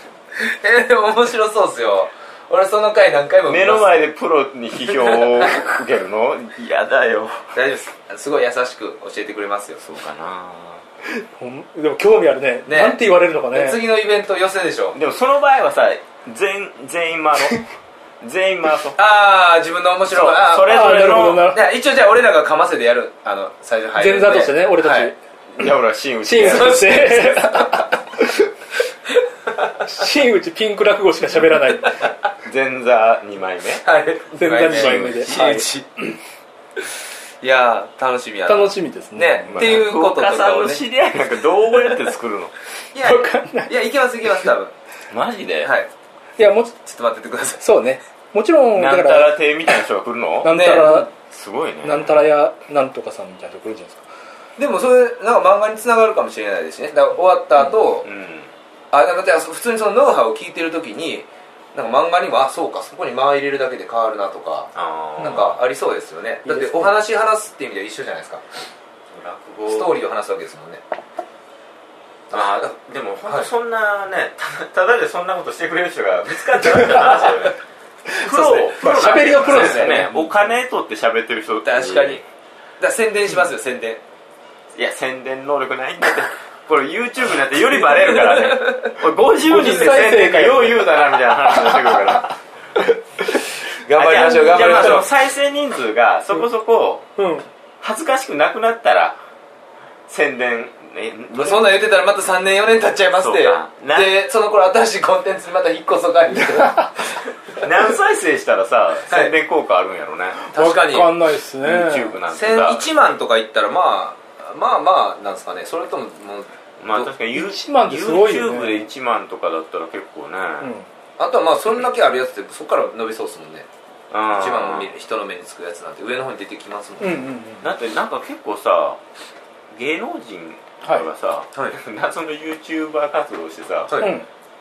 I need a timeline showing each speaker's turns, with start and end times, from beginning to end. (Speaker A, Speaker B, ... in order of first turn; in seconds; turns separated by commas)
Speaker A: 0.4-4.0, Speaker B: 3.5-7.5, Speaker A: 4.9-5.5, Speaker A: 7.5-9.8, Speaker B: 9.8-10.8, Speaker C: 11.1-13.8, Speaker A: 12.7-15.0, Speaker B: 14.9-17.6, Speaker B: 18.2-19.0, Speaker A: 19.0-25.1, Speaker B: 20.1-21.5, Speaker C: 20.6-21.6, Speaker C: 24.0-25.1, Speaker B: 25.6-27.5, Speaker C: 26.2-28.5, Speaker A: 26.4-26.9, Speaker C: 29.9-32.0, Speaker B: 32.4-33.8, Speaker A: 33.8-35.9, Speaker C: 34.4-36.1, Speaker B: 34.6-35.6, Speaker A: 37.4-40.8, Speaker C: 38.5-39.9, Speaker B: 39.5-42.5, Speaker A: 42.9-44.7, Speaker C: 43.0-43.7, Speaker B: 45.1-45.7, Speaker A: 45.6-45.9, Speaker C: 46.4-46.8, Speaker A: 46.9-47.6, Speaker C: 47.6-49.4, Speaker B: 48.8-52.2, Speaker C: 50.4-51.1, Speaker A: 50.5-51.0, Speaker C: 51.8-54.1, Speaker A: 54.6-58.1, Speaker B: 58.0-58.5, Speaker A: 58.9-68.5, Speaker B: 64.8-65.6, Speaker C: 66.5-66.9, Speaker B: 69.1-69.9, Speaker A: 69.7-70.8, Speaker A: 72.3-72.7, Speaker B: 72.3-77.6, Speaker B: 78.1-82.2, Speaker A: 78.3-80.1, Speaker C: 78.8-80.2, Speaker A: 81.6-82.2, Speaker A: 82.8-84.0, Speaker B: 84.7-92.3, Speaker A: 88.0-88.9, Speaker C: 89.4-92.3, Speaker A: 93.8-95.1, Speaker B: 94.0-97.1, Speaker C: 94.2-95.0, Speaker C: 97.2-97.5, Speaker B: 97.8-99.2, Speaker B: 100.1-101.8, Speaker A: 101.3-107.7, Speaker B: 103.2-104.2, Speaker C: 106.5-106.9, Speaker B: 107.6-110.4, Speaker A: 109.1-109.3, Speaker C: 110.5-112.2, Speaker A: 110.5-111.2, Speaker B: 111.6-112.9, Speaker A: 112.3-117.1, Speaker B: 116.8-120.7, Speaker C: 117.3-118.9, Speaker C: 120.6-120.9, Speaker A: 121.2-123.7, Speaker B: 124.1-124.9, Speaker A: 124.3-127.3, Speaker C: 127.0-127.7, Speaker B: 127.6-129.0, Speaker B: 129.7-134.1, Speaker A: 133.9-134.2, Speaker C: 134.0-134.3